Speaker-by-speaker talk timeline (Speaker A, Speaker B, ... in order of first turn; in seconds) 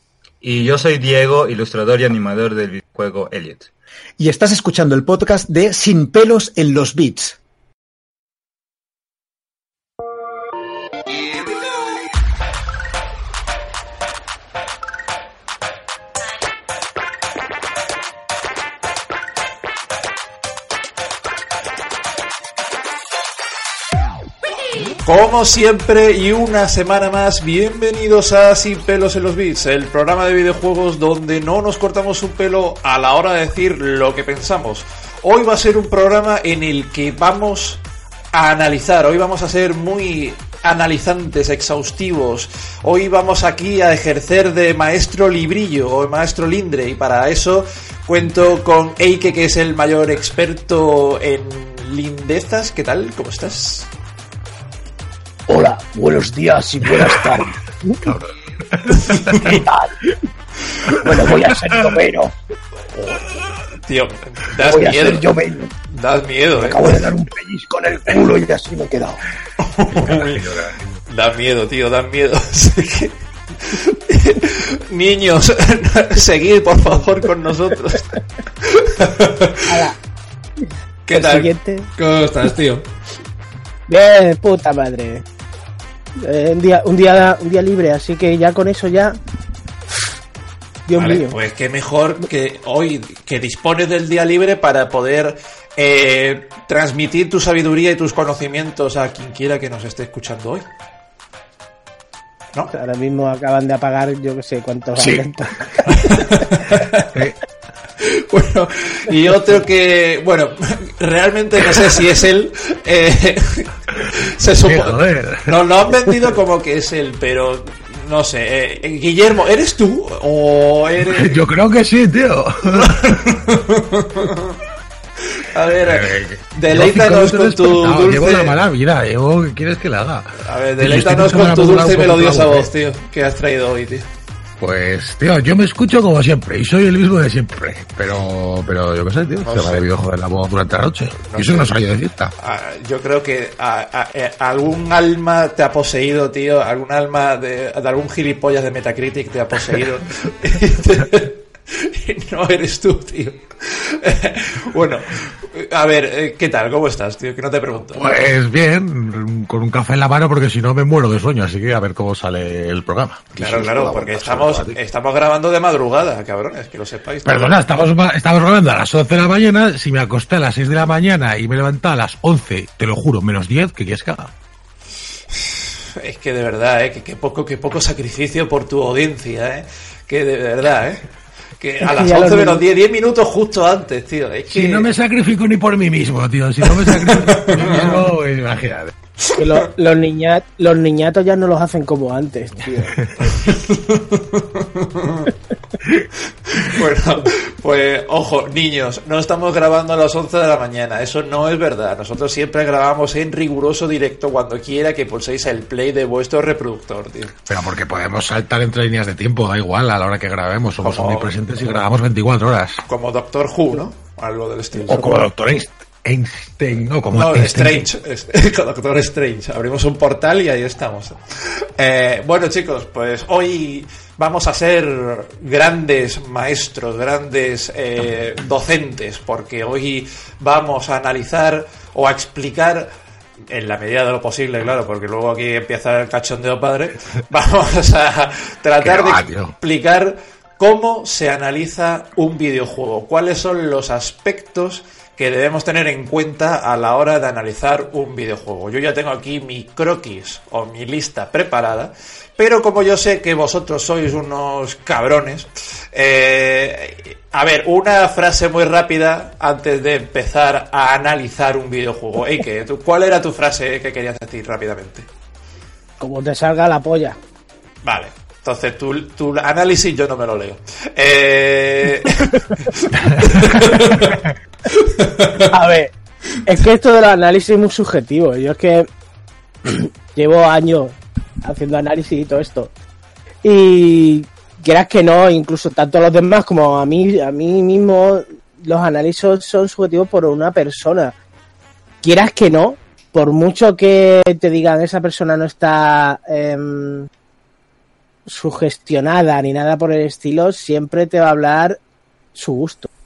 Speaker A: 0.4-3.7
Speaker B: 4.2-7.4
Speaker C: 25.0-53.9, 59.0-59.5, 62.9-65.3, 65.9-67.1, 69.6-70.4, 71.1-79.6, 81.1-82.8, 90.9-100.6, 105.9-107.1, 108.0-121.4, 122.7-124.6, 125.3-128.6, 130.4-134.1, 139.4-139.8, 141.2-141.7, 142.4-158.1, 163.3-167.6, 175.3-181.1, 181.6-184.9, 186.7-188.0, 193.2-195.3, 196.5-207.3, 210.8-211.8, 212.8-215.2, 217.1-221.2, 221.8-232.9, 233.5-265.1, 267.8-274.2, 274.7-275.3
Speaker D: 55.5-57.5, 59.4-59.9, 61.0-62.3, 64.6-65.7, 66.6-69.2
Speaker E: 58.0-59.6, 69.9-71.0, 105.0-105.3, 114.6-115.5, 121.1-122.9, 125.8-132.7, 134.6-142.3, 157.8-164.8, 167.2-174.3, 184.5-188.9, 207.5-212.8, 214.8-217.9, 238.8-239.5
Speaker F: 79.7-79.9, 81.1-81.9, 83.9-85.2, 86.2-89.2, 90.8-91.3, 102.7-106.1, 181.8-182.6, 189.4-192.9, 266.0-267.2, 275.5-275.9, 276.4-278.9, 279.6-282.7, 283.4-291.1, 292.0-297.1, 298.2-301.8, 302.3-302.9